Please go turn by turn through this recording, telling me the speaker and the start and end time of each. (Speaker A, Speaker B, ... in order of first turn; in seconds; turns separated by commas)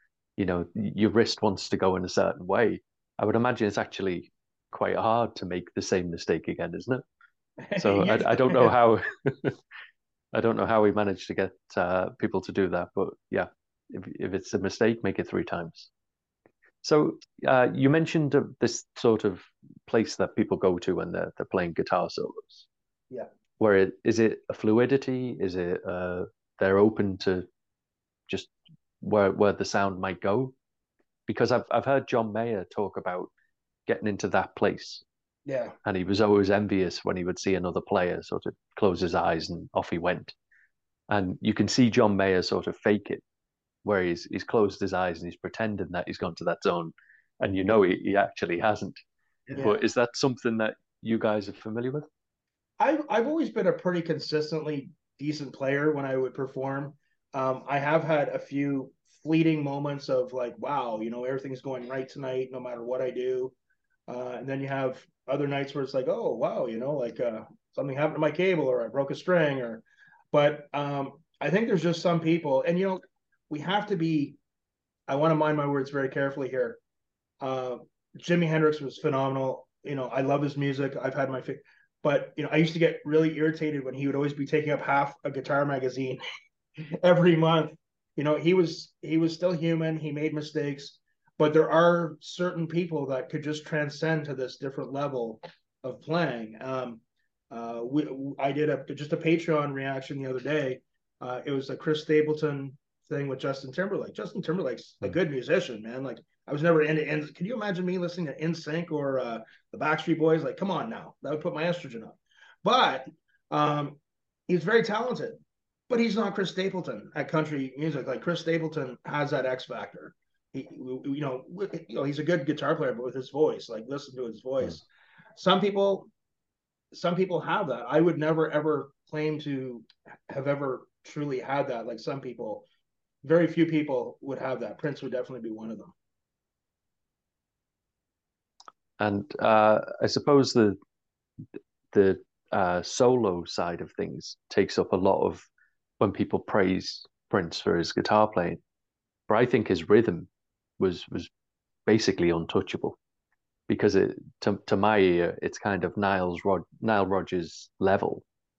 Speaker A: 0.4-7.0, Speaker B: 7.6-8.7, Speaker A: 7.8-9.6, Speaker A: 10.3-15.9, Speaker A: 16.8-22.7, Speaker A: 23.6-27.5, Speaker A: 28.3-30.5, Speaker A: 31.3-33.3, Speaker A: 33.9-35.0, Speaker B: 35.5-35.8, Speaker A: 35.8-40.3, Speaker A: 41.1-43.2, Speaker A: 43.9-49.0, Speaker A: 49.6-52.1, Speaker B: 52.8-63.5, Speaker B: 64.1-74.4, Speaker B: 75.1-76.8, Speaker B: 77.4-86.2, Speaker B: 87.0-115.4, Speaker B: 115.9-124.8, Speaker B: 125.4-126.1, Speaker B: 126.9-132.7, Speaker B: 133.2-135.9, Speaker A: 139.0-140.8, Speaker A: 141.9-145.4, Speaker A: 146.0-148.6, Speaker A: 149.3-150.3, Speaker A: 150.8-151.3, Speaker A: 151.9-153.0, Speaker A: 153.7-158.2